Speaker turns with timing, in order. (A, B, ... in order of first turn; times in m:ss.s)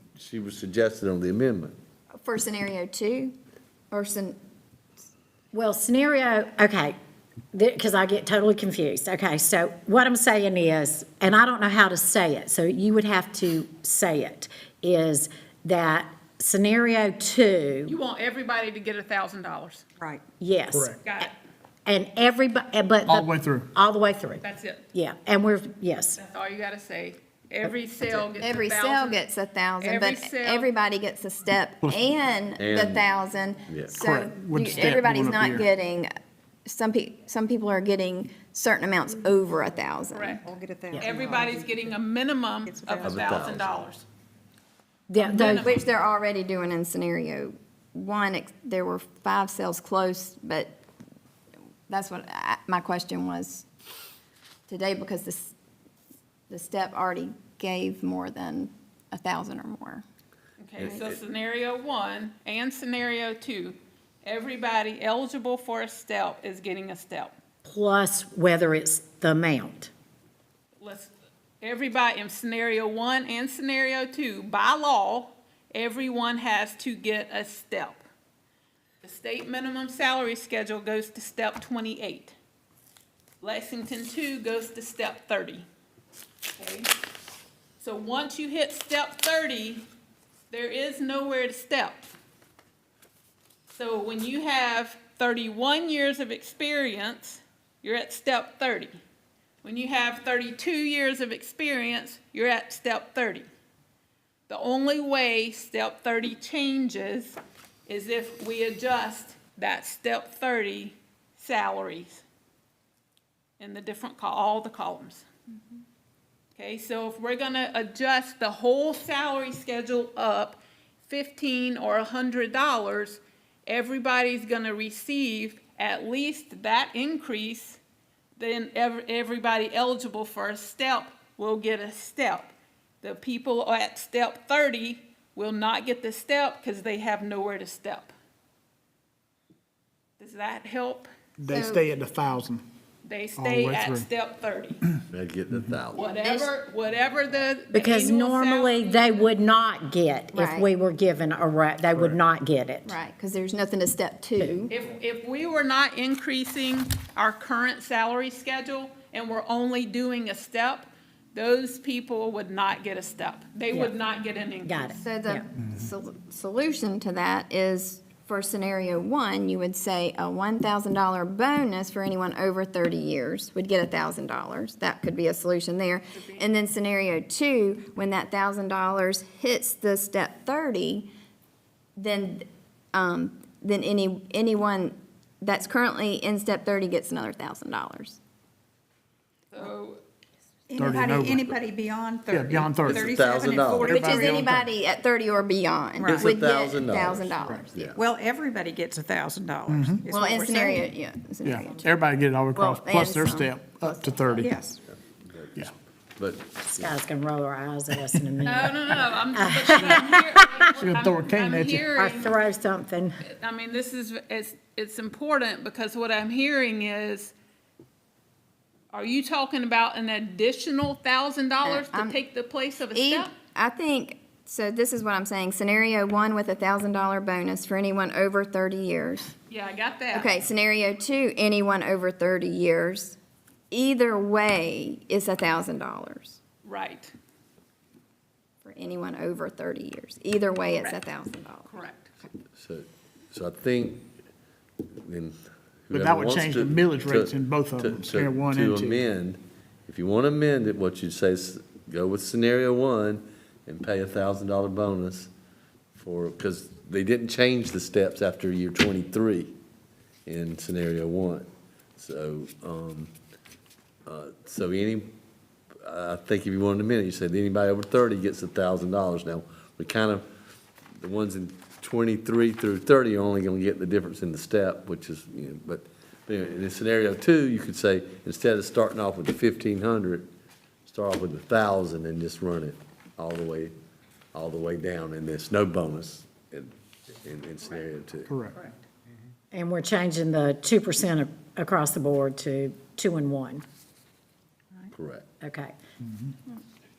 0:00.2-0:01.8 A
0:02.2-0:03.3 B
0:03.9-0:04.4 B
0:05.5-0:07.0 C
0:07.5-0:18.0 C
0:17.8-0:19.8 D
0:20.4-0:21.3 C
0:20.7-0:21.0 E
0:21.0-0:21.3 D
0:21.8-0:26.2 C
0:23.1-0:23.7 E
0:24.4-0:24.8 D
0:26.2-0:29.2 D
0:28.4-0:36.1 B
0:29.8-0:30.7 D
0:31.8-0:32.1 E
0:32.6-0:33.0 A
0:33.7-0:33.9 A
0:33.9-0:35.7 E
0:36.6-0:40.4 B
0:40.1-0:44.0 D
0:40.4-0:41.9 F
0:42.6-0:43.3 F
0:43.0-0:43.7 A
0:45.1-0:45.7 C
0:45.2-0:45.8 D
0:45.6-0:50.8 B
0:51.9-0:53.6 B
0:54.7-0:55.5 B
0:56.5-1:00.0 B
1:00.6-1:07.3 D
1:00.8-1:01.1 A
1:07.6-1:09.9 C
1:10.8-1:18.0 D
1:19.0-1:22.4 D
1:23.4-1:25.6 D
1:26.6-1:26.9 D
1:27.8-1:29.8 D
1:30.5-1:32.1 D
1:33.7-1:39.0 D
1:39.6-1:43.4 D
1:44.5-1:52.2 D
1:53.6-1:55.3 D
1:56.6-2:07.8 D
2:08.4-2:18.1 D
2:20.2-2:21.1 D
2:21.4-2:22.6 E
2:21.5-2:21.8 B
2:23.0-2:24.8 D
2:23.4-2:24.1 E
2:24.9-2:25.8 E
2:25.1-2:26.0 A
2:25.9-2:29.3 D
2:26.0-2:26.5 B
2:27.7-2:32.9 C
2:30.3-2:30.7 B
2:32.8-2:34.7 B
2:34.7-2:45.0 D
2:44.6-2:45.5 C
2:45.0-3:01.1 B
2:56.1-2:56.5 D
3:02.0-3:08.2 B
3:09.5-3:10.0 D
3:10.7-3:14.5 F
3:10.8-3:11.4 E
3:12.3-3:13.1 E
3:12.8-3:14.1 A
3:13.8-3:17.8 B
3:14.0-3:14.6 E
3:16.0-3:16.3 F
3:16.1-3:18.0 A
3:17.8-3:20.9 F
3:19.7-3:20.1 E
3:20.1-3:22.0 B
3:21.4-3:24.6 E
3:22.5-3:24.3 B
3:24.3-3:24.8 F
3:24.9-3:26.9 A
3:26.6-3:30.9 C
3:28.4-3:32.4 D
3:30.8-3:31.8 E
3:31.9-3:33.2 C
3:33.2-3:37.3 D
3:38.9-3:43.3 D
3:41.6-3:42.2 B
3:42.9-3:49.3 B
3:49.5-3:50.4 D
3:50.1-3:53.2 B
3:53.7-3:56.4 B
3:56.6-3:57.1 D
3:58.6-4:01.7 B
4:01.7-4:02.1 D
4:02.5-4:04.1 A
4:05.0-4:15.3 A
4:05.9-4:09.0 E
4:16.0-4:19.5 A
4:20.2-4:23.1 A
4:24.0-4:25.1 A
4:25.8-4:30.2 A
4:31.0-4:40.3 A
4:40.8-4:43.7 A
4:44.3-4:48.3 A
4:48.3-4:48.6 E
4:49.5-4:53.6 C
4:54.9-4:55.2 A
4:55.4-4:55.7 C